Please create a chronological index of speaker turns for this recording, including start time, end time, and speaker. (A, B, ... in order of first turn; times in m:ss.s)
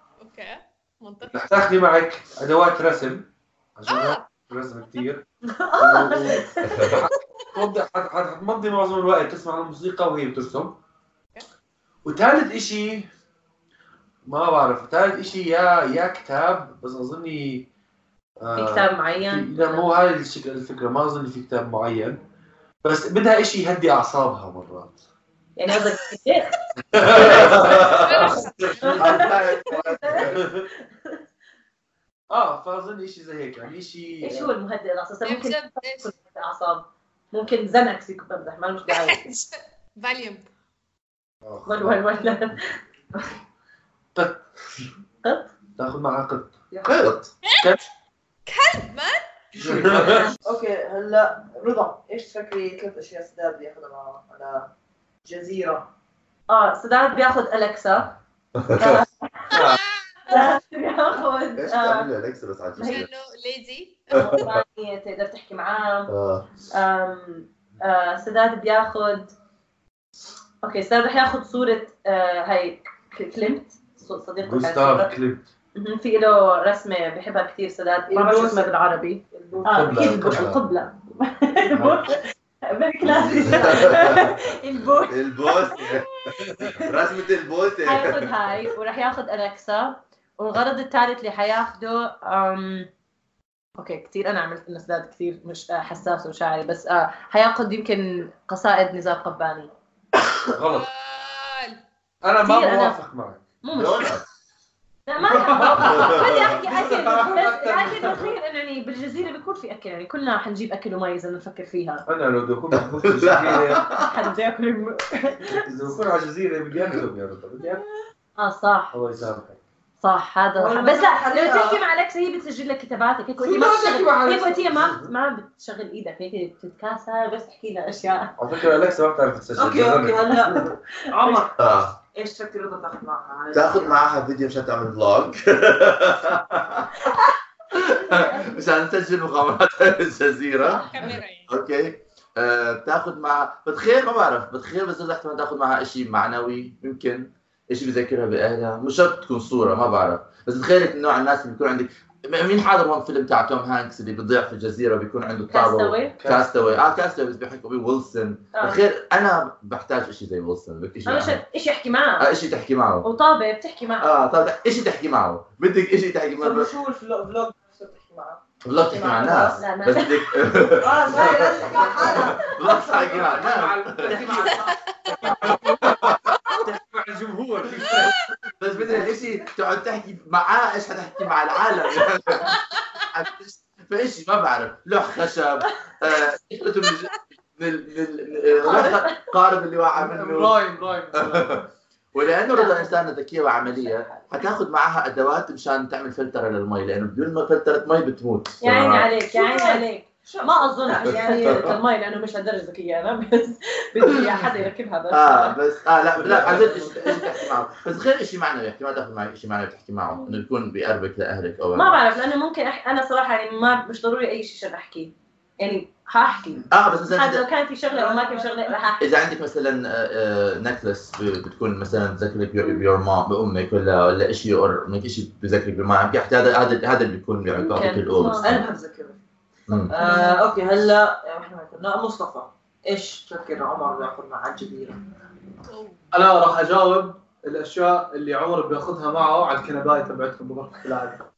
0:00.2-0:01.5 A
0:01.3-0:05.2 B
0:03.9-0:04.2 A
0:05.5-0:07.0 C
0:05.8-0:10.8 B
0:06.7-0:07.0 D
0:12.0-0:13.1 B
0:14.3-0:17.7 B
0:18.4-0:22.2 B
0:18.6-0:19.9 C
0:22.8-0:25.0 B
0:25.6-0:26.6 C
0:25.7-0:26.1 A
0:26.9-0:29.0 B
0:27.0-0:30.5 D
0:27.3-0:29.4 A
0:28.2-0:31.2 C
0:32.3-0:34.5 B
0:34.2-0:39.2 C
0:35.2-0:36.1 A
0:38.9-0:40.5 A
0:41.4-0:42.0 B
0:41.7-0:42.8 C
0:44.2-0:44.8 B
0:45.2-0:45.5 C
0:45.8-0:46.5 B
0:46.7-0:47.0 E
0:46.8-0:47.3 D
0:47.5-0:47.8 A
0:48.5-0:49.3 A
0:49.6-0:50.3 B
0:49.8-0:50.2 D
0:50.0-0:54.7 E
0:55.3-0:55.9 E
0:56.5-0:58.2 C
0:58.6-0:59.0 D
0:58.7-0:59.6 C
0:59.5-1:00.6 A
1:00.3-1:02.1 C
1:01.6-1:03.1 D
1:02.8-1:03.0 C
1:02.8-1:04.4 A
1:04.2-1:04.6 D
1:04.2-1:06.1 C
1:06.1-1:06.5 D
1:06.7-1:09.3 C
1:10.6-1:15.1 C
1:14.4-1:15.4 B
1:15.8-1:25.7 C
1:18.1-1:18.8 E
1:19.3-1:20.4 E
1:19.7-1:20.6 B
1:21.7-1:22.1 B
1:23.0-1:24.4 D
1:23.2-1:23.9 B
1:25.1-1:28.7 D
1:27.8-1:32.9 C
1:33.8-1:39.7 C
1:40.5-1:40.9 B
1:40.7-1:41.8 A
1:42.2-1:43.4 B
1:42.4-1:43.0 C
1:43.6-1:44.2 C
1:43.7-1:44.2 D
1:45.1-1:52.0 C
1:45.3-1:48.3 B
1:45.5-1:46.5 D
1:52.1-1:53.9 B
1:52.7-1:54.2 D
1:53.9-1:55.6 C
1:55.5-1:57.8 B
1:56.8-1:57.0 D
1:58.4-1:58.9 C
1:58.9-1:59.6 B
2:00.0-2:08.3 C
2:00.6-2:01.8 E
2:03.4-2:05.1 B
2:08.4-2:10.6 B
2:09.6-2:11.6 E
2:11.6-2:12.0 D
2:12.2-2:14.0 E
2:13.5-2:17.0 D
2:17.7-2:41.4 D
2:17.9-2:18.6 C
2:20.6-2:21.2 C
2:20.8-2:21.5 A
2:35.5-2:36.2 C
2:36.2-2:36.8 B
2:41.1-2:42.3 C
2:42.2-2:43.1 D
2:43.0-2:44.1 C
2:44.0-2:46.7 D
2:46.4-2:49.6 E
2:48.6-2:54.7 D
2:49.6-2:50.4 C
2:50.8-2:53.3 E
2:51.1-2:52.5 C
2:52.7-2:54.5 B
2:54.0-2:54.7 E
2:54.3-2:55.4 A
2:55.2-2:56.6 D
2:55.2-2:58.1 B
2:57.8-3:02.6 D
3:02.5-3:03.1 A
3:03.1-3:10.6 D
3:08.6-3:09.3 C
3:10.0-3:11.6 F
3:11.1-3:19.1 D
3:12.5-3:13.0 C
3:13.7-3:14.2 C
3:18.6-3:25.6 C
3:19.3-3:21.7 E
3:21.1-3:21.8 D
3:25.1-3:32.0 D
3:26.2-3:26.9 B
3:26.9-3:27.4 C
3:31.8-3:39.1 C
3:36.7-3:37.5 D
3:37.9-3:38.9 E
3:39.0-3:48.6 D
3:47.6-3:48.5 C
3:48.1-3:49.2 E
3:49.9-3:55.0 E
3:50.0-3:50.4 C
3:55.7-3:56.0 A
3:56.1-4:01.2 F